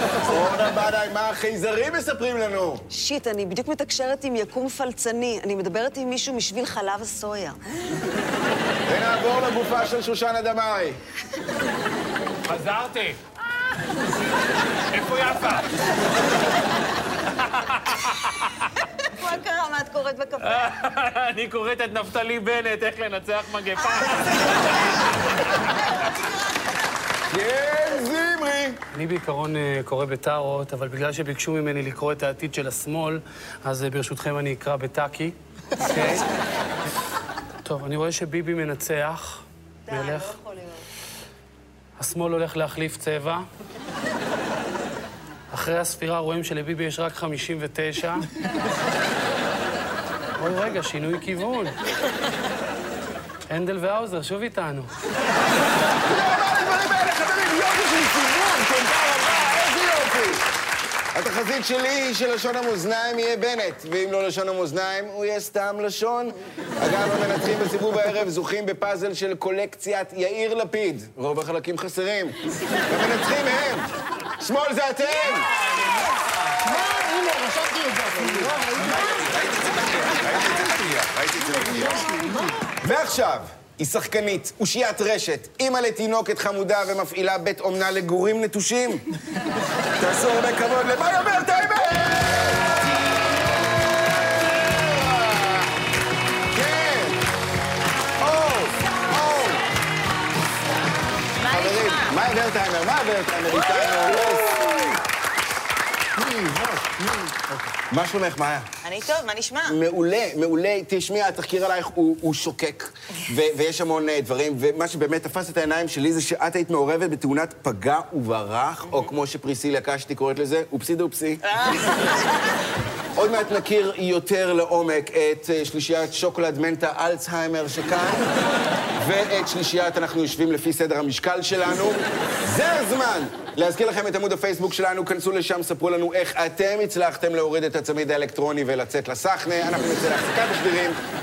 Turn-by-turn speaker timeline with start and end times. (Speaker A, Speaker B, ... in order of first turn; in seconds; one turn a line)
Speaker A: 0.2-2.9
Speaker B: 2.9-7.6
Speaker A: 8.9-11.0
Speaker C: 12.5-13.2
Speaker C: 14.9-15.7
Speaker C: 17.4-18.7
Speaker B: 19.2-20.7
Speaker C: 20.4-24.9
Speaker A: 27.3-28.8
Speaker D: 28.9-36.2
Speaker D: 37.6-40.4
Speaker B: 39.9-40.9
Speaker D: 42.0-43.5
Speaker D: 45.5-48.3
Speaker D: 50.4-51.8
Speaker D: 53.5-54.9
Speaker A: 56.0-60.5
Speaker A: 61.1-72.4
Speaker A: 72.9-73.9
Speaker A: 74.4-75.5
Speaker E: 76.6-79.2
Speaker F: 78.8-82.1
Speaker E: 81.6-82.5
Speaker A: 82.8-89.0
Speaker A: 90.0-93.0
Speaker A: 94.0-95.7
Speaker A: 96.5-97.2
Speaker A: 98.2-99.6
Speaker G: 101.4-102.2
Speaker A: 101.5-104.8
Speaker E: 106.2-107.7
Speaker A: 107.9-108.7
Speaker G: 108.8-109.8
Speaker A: 109.7-121.4
Speaker G: 121.4-122.1
Speaker A: 123.2-128.3
Speaker A: 129.0-141.0